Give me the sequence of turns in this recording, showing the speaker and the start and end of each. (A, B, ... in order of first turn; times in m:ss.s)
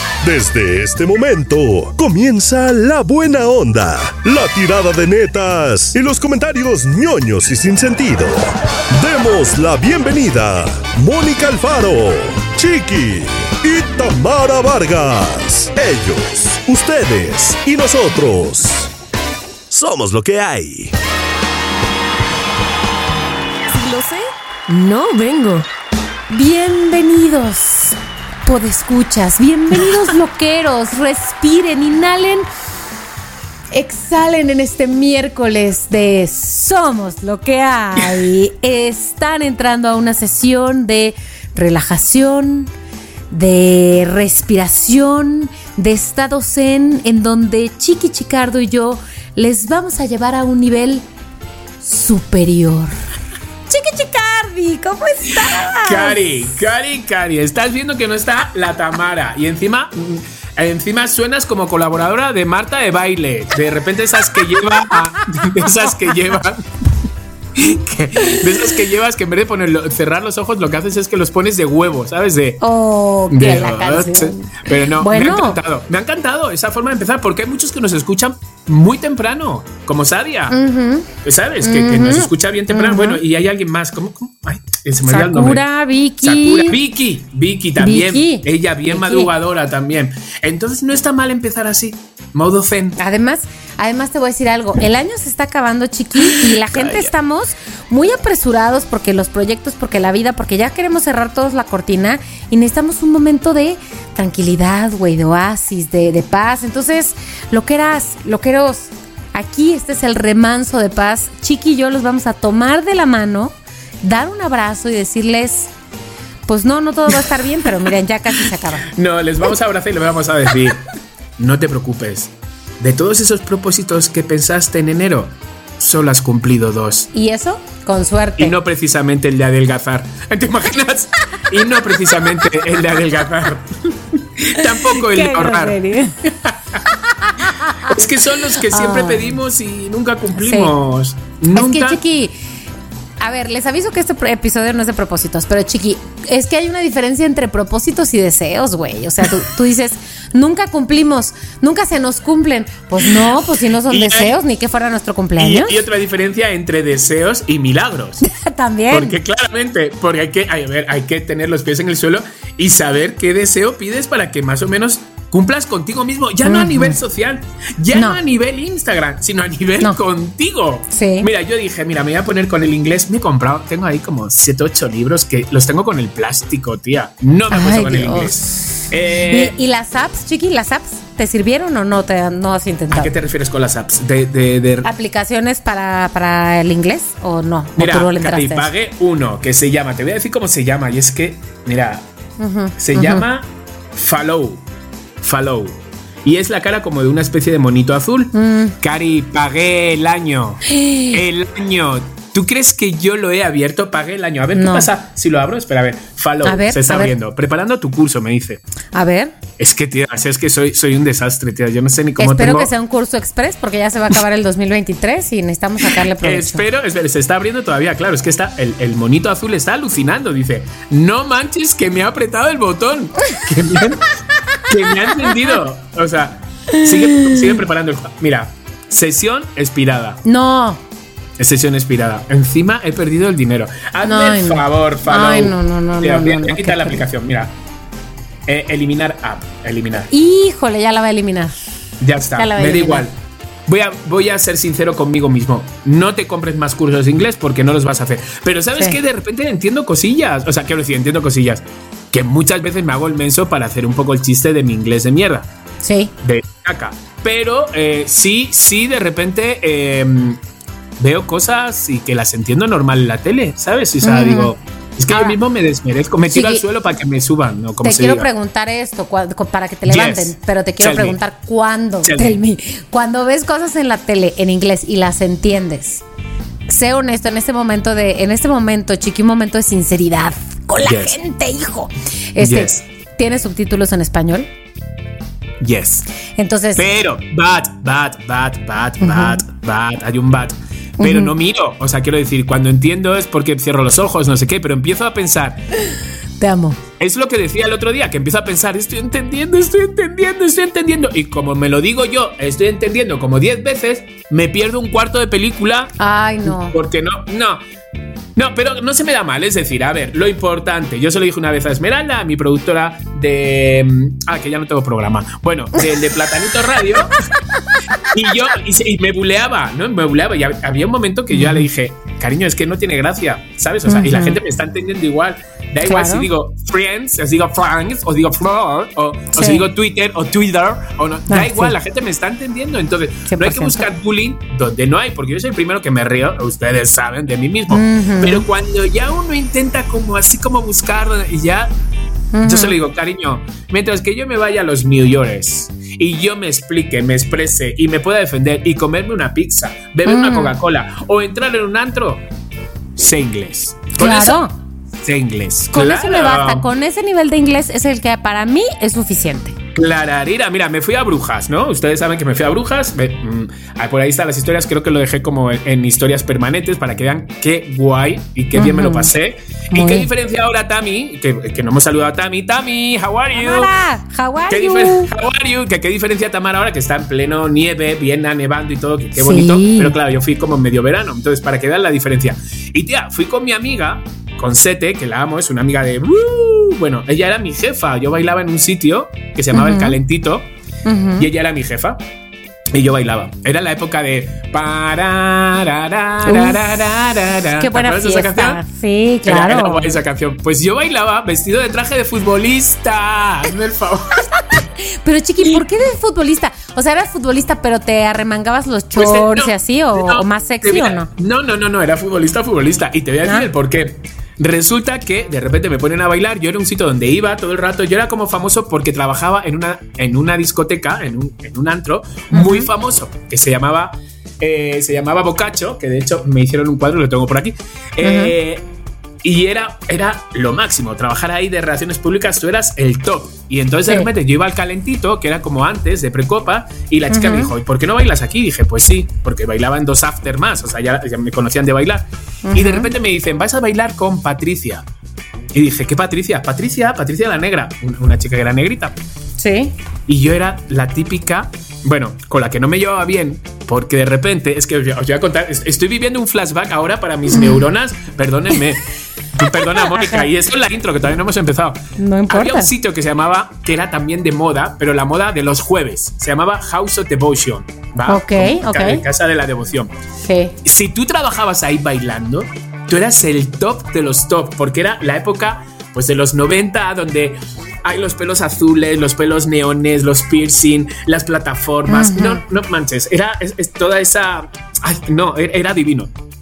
0:00.2-0:18.9 A
0:19.7-0:20.9 A
0:23.7-0:25.7 B
0:26.3-0:32.4 B
0:33.7-0:42.7 B
0:43.3-0:51.0 B
0:51.8-0:53.0 B
0:53.7-0:56.3 B
0:55.3-1:06.7 C
1:07.5-1:12.6 C
1:08.2-1:08.7 B
1:12.6-1:15.6 B
1:13.3-1:20.6 C
1:20.5-1:21.1 B
1:21.2-1:25.6 C
1:21.6-1:23.2 B
1:25.1-1:26.8 B
1:26.2-1:33.0 C
1:27.8-1:29.3 B
1:33.0-1:55.7 B
1:36.2-1:37.1 C
1:56.5-1:58.9 B
1:58.9-2:00.8 C
2:01.4-2:07.1 C
2:07.1-2:08.6 B
2:08.4-2:16.8 C
2:14.6-2:16.2 B
2:17.2-2:18.0 B
2:17.7-2:22.0 C
2:18.6-2:19.3 B
2:20.4-2:20.7 B
2:21.5-2:22.3 B
2:23.2-2:35.8 B
2:33.9-2:34.3 C
2:35.4-2:38.2 C
2:38.2-2:39.2 B
2:38.9-2:59.6 C
2:46.4-2:47.0 B
2:47.9-2:48.2 B
2:50.9-2:51.3 B
2:57.5-2:58.7 B
2:59.3-3:03.1 B
3:02.9-3:04.9 C
3:04.8-3:08.7 B
3:07.8-3:12.0 C
3:12.4-3:13.2 B
3:12.8-3:14.6 C
3:15.2-3:28.6 C
3:18.3-3:18.8 B
3:20.7-3:21.2 B
3:24.6-3:24.9 B
3:26.4-3:27.1 B
3:28.9-3:29.3 B
3:29.6-3:32.7 C
3:32.2-3:36.6 B
3:36.2-3:44.1 C
3:44.6-3:50.2 C
3:46.8-3:47.5 B
3:50.2-3:50.8 B
3:51.4-3:57.5 C
3:54.0-3:57.0 B
3:58.5-4:00.1 C
4:00.1-4:01.5 B
4:02.0-4:03.1 C
4:02.3-4:03.1 B
4:03.7-4:15.4 C
4:15.8-4:16.1 B
4:16.2-4:20.4 C
4:21.0-4:28.3 C
4:24.0-4:24.5 B
4:25.1-4:25.4 B
4:26.3-4:26.6 B
4:27.8-4:36.0 B
4:29.9-4:31.2 C
4:32.0-4:32.4 C
4:36.7-4:44.5 B
4:40.8-4:41.2 C
4:42.4-4:42.8 C
4:45.6-4:46.1 C
4:46.4-4:46.8 B
4:46.8-4:55.6 C
4:49.0-4:49.4 B
4:51.0-4:51.3 B
4:56.4-4:56.8 B
4:57.0-5:05.9 C
5:06.0-5:06.8 B
5:06.4-5:07.6 C
5:08.4-5:17.2 C
5:17.5-5:18.0 B
5:18.0-5:41.7 C
5:21.4-5:21.6 B
5:23.9-5:24.4 B
5:25.8-5:26.3 B
5:29.4-5:29.6 B
5:31.3-5:31.7 B
5:33.3-5:33.9 B
5:37.7-5:38.4 B
5:42.3-5:42.8 B
5:42.4-5:52.2 C
5:50.0-5:50.6 B
5:53.0-5:54.4 C
5:53.9-5:54.5 B
5:55.0-5:56.7 C
5:55.7-5:59.6 B
5:59.8-6:13.7 C
6:08.6-6:09.1 B
6:09.7-6:10.1 B
6:13.3-6:15.1 B
6:14.5-6:30.5 C
6:19.2-6:19.9 B
6:29.5-6:30.0 B
6:30.8-6:31.3 B
6:31.2-6:32.0 C
6:32.7-6:38.6 C
6:36.2-6:36.8 B
6:37.6-6:39.9 B
6:39.2-6:44.3 C
6:44.5-6:51.1 B
6:49.0-7:08.7 C
7:02.3-7:02.7 B
7:08.0-7:08.3 B
7:09.2-7:24.8 C
7:17.1-7:17.5 B
7:22.4-7:22.9 B
7:25.5-7:29.0 C
7:29.4-7:29.8 B
7:30.1-7:49.9 C
7:39.6-7:40.3 B
7:42.0-7:42.7 B
7:48.1-7:49.0 B
7:50.3-7:50.6 B
7:50.6-8:06.1 C
8:01.9-8:02.4 B